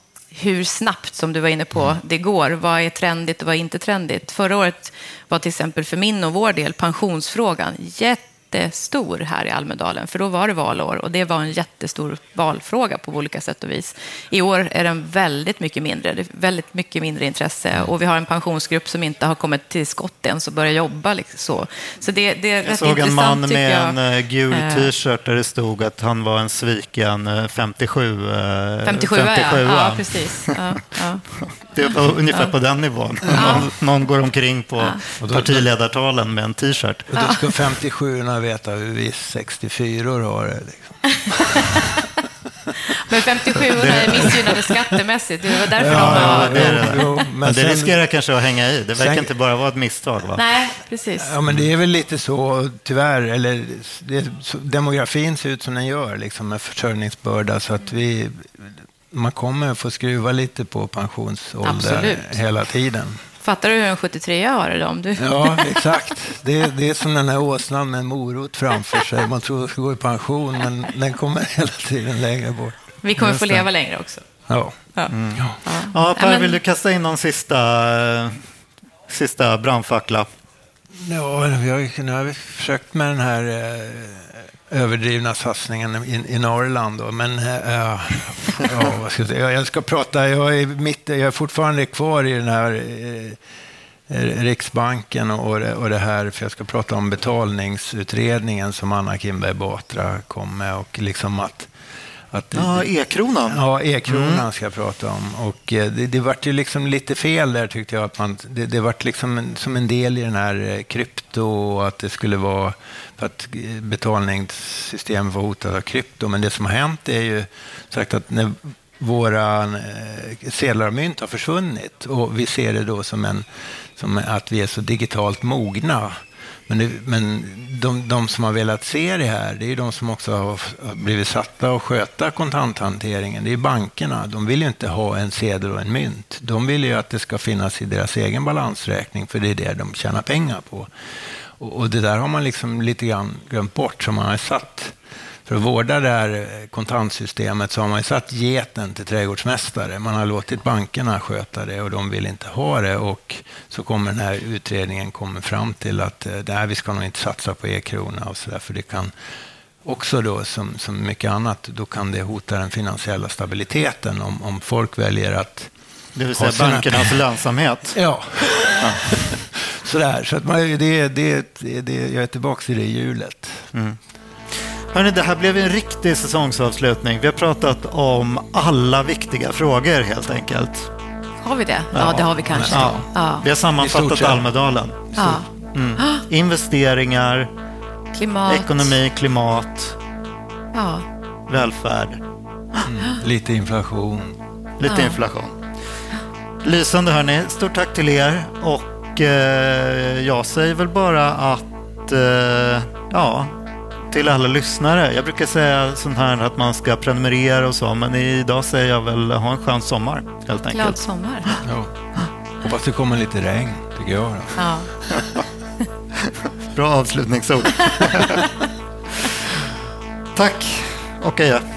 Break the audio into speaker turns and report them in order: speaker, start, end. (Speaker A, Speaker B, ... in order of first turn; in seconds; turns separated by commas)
Speaker A: 0.3-24.0, Speaker B: 22.6-30.6, Speaker A: 24.5-24.9, Speaker A: 28.9-31.2, Speaker B: 31.4-37.3, Speaker A: 33.3-33.7, Speaker C: 35.2-35.6, Speaker C: 37.1-41.8, Speaker A: 41.3-42.0, Speaker A: 42.9-47.2, Speaker B: 43.8-44.4, Speaker C: 45.8-48.0, Speaker B: 45.8-50.4, Speaker C: 49.0-49.3, Speaker A: 50.4-51.4, Speaker C: 51.2-63.2, Speaker A: 61.6-62.3, Speaker A: 63.4-65.8, Speaker C: 65.2-72.8, Speaker A: 73.0-74.2, Speaker B: 73.2-73.7, Speaker C: 74.5-74.8, Speaker B: 75.1-78.5, Speaker A: 75.6-76.6, Speaker B: 79.1-80.3, Speaker C: 81.0-93.4, Speaker C: 94.1-101.7, Speaker C: 102.3-102.9, Speaker B: 102.5-104.4, Speaker C: 103.5-123.5, Speaker C: 124.0-126.2, Speaker C: 126.7-140.9, Speaker C: 141.6-144.9, Speaker C: 145.5-159.1, Speaker C: 159.8-165.7, Speaker B: 166.2-168.0, Speaker C: 166.3-167.2, Speaker C: 167.9-173.7, Speaker B: 168.8-169.1, Speaker B: 173.7-174.0, Speaker B: 174.5-180.9, Speaker A: 181.4-183.5, Speaker B: 181.9-187.5, Speaker C: 182.4-183.0, Speaker C: 183.8-184.4, Speaker A: 185.2-185.5, Speaker A: 186.0-186.2, Speaker A: 188.1-189.0, Speaker B: 188.5-190.0, Speaker A: 190.7-191.1, Speaker B: 191.5-192.2, Speaker C: 192.8-194.4, Speaker B: 194.8-195.6, Speaker A: 194.9-195.2, Speaker B: 196.6-211.6, Speaker A: 210.7-211.6, Speaker C: 211.6-211.9, Speaker C: 212.5-215.2, Speaker A: 214.6-214.9, Speaker B: 216.2-218.5, Speaker B: 220.3-221.7